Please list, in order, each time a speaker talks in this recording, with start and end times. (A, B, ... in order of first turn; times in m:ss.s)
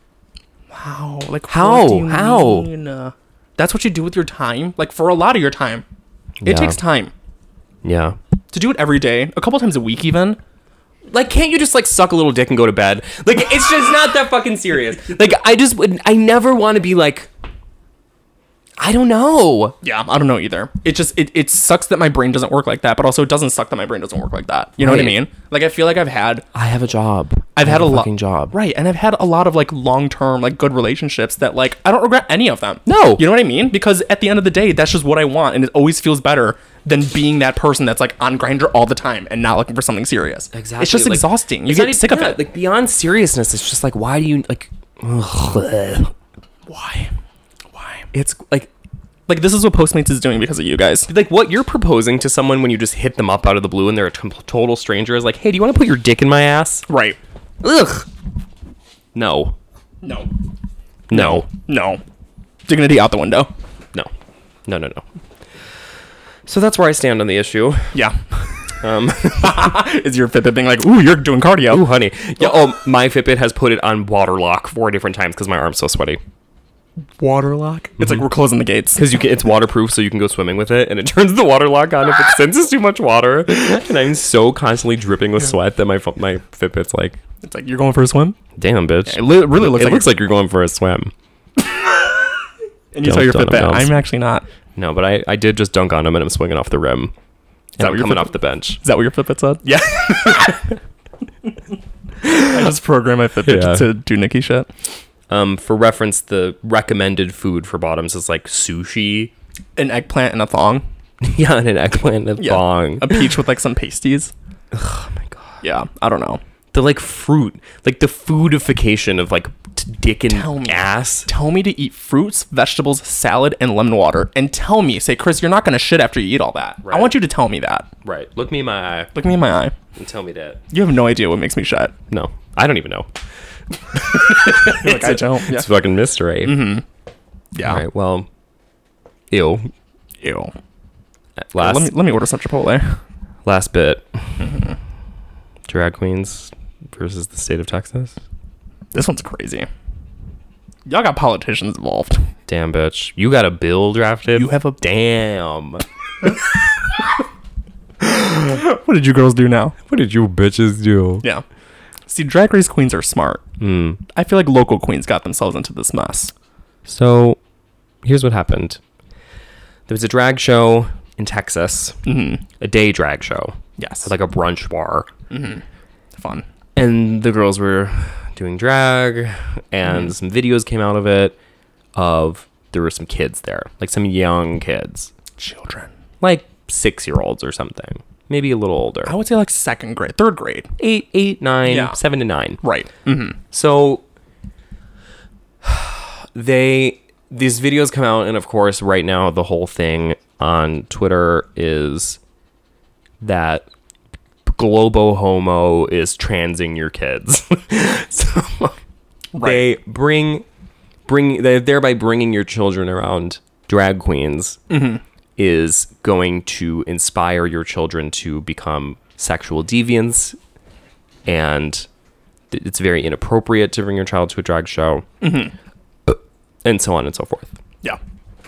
0:00.7-0:05.8 A
0:01.5-0:02.7 B
0:06.4-0:06.8 B
0:06.4-0:07.1 A
0:07.8-0:08.2 B
0:08.5-0:10.4 A
0:11.1-0:17.3 B
0:18.8-0:19.8 B
0:19.8-0:26.4 A
0:24.8-0:25.2 B
0:26.5-0:28.5 B
0:27.5-0:42.4 A
0:32.8-0:33.2 B
0:40.5-0:46.1 B
0:46.7-0:47.1 A
0:47.7-0:48.0 A
0:48.1-0:48.7 B
0:49.3-0:51.1 A
0:51.1-0:56.9 B
0:56.9-0:57.2 A
0:57.6-0:58.1 B
0:59.1-0:59.6 B
1:00.0-1:00.3 A
1:01.1-1:01.4 B
1:01.1-1:02.0 A
1:02.7-1:03.5 A
1:04.6-1:05.0 B
1:06.4-1:08.0 B
1:07.9-1:08.2 A
1:08.8-1:09.8 B
1:09.4-1:11.8 A
1:11.7-1:16.2 B
1:17.2-1:19.0 A
1:18.0-1:18.2 B
1:19.0-1:27.2 B
1:27.4-1:28.4 A
1:28.6-1:31.1 B
1:29.1-1:30.1 A
1:32.9-1:34.4 A
1:33.0-1:34.0 B
1:34.8-1:37.1 B
1:37.8-1:38.8 B
1:37.8-1:40.7 A
1:40.1-1:40.5 B
1:42.2-1:44.7 A
1:42.3-1:42.6 B
1:43.4-1:43.9 B
1:45.3-1:49.3 B
1:49.8-1:50.8 A
1:51.2-1:53.3 B
1:52.4-1:54.3 A
1:54.7-1:55.6 B
1:55.6-1:56.4 A
1:56.7-2:01.3 B
2:00.3-2:07.9 A
2:06.8-2:07.1 B
2:08.0-2:09.1 B
2:09.1-2:09.7 A
2:10.0-2:10.6 B
2:10.7-2:11.9 A
2:12.1-2:13.1 B
2:13.9-2:16.8 B
2:14.2-2:15.7 A
2:16.4-2:16.8 A
2:17.5-2:17.8 A
2:17.6-2:18.3 B
2:19.3-2:19.7 B
2:20.2-2:20.5 A
2:21.4-2:21.9 B
2:21.6-2:23.0 A
2:23.4-2:24.5 B
2:24.4-2:24.7 A
2:25.7-2:28.2 B
2:28.9-2:29.7 A
2:30.9-2:32.2 A
2:32.5-2:35.8 B
2:34.3-2:34.8 A
2:38.0-2:39.8 A
2:39.9-2:41.2 B
2:42.1-2:43.4 A
2:43.6-2:44.0 B
2:44.1-2:46.3 A
2:46.8-2:47.4 B
2:48.0-2:48.8 B
2:49.9-2:52.0 B
2:52.0-2:52.4 A
2:52.6-2:55.1 B
2:53.8-2:54.1 A
2:55.3-2:55.6 A
2:56.2-2:56.4 A
2:56.8-3:01.4 B
3:01.9-3:05.1 B
3:05.4-3:05.9 A
3:06.2-3:09.1 B
3:09.0-3:10.7 A
3:10.8-3:12.6 B
3:11.6-3:12.0 A
3:12.6-3:13.4 A
3:13.5-3:14.0 B
3:15.6-3:22.2 B
3:23.2-3:23.6 B
3:24.4-3:28.8 B
3:29.3-3:29.7 A
3:29.4-3:30.4 B
3:31.0-3:34.6 B
3:34.7-3:35.0 A
3:35.4-3:40.4 B
3:41.2-3:41.9 B
3:42.5-3:45.1 B
3:45.2-3:45.5 A
3:46.0-3:47.5 B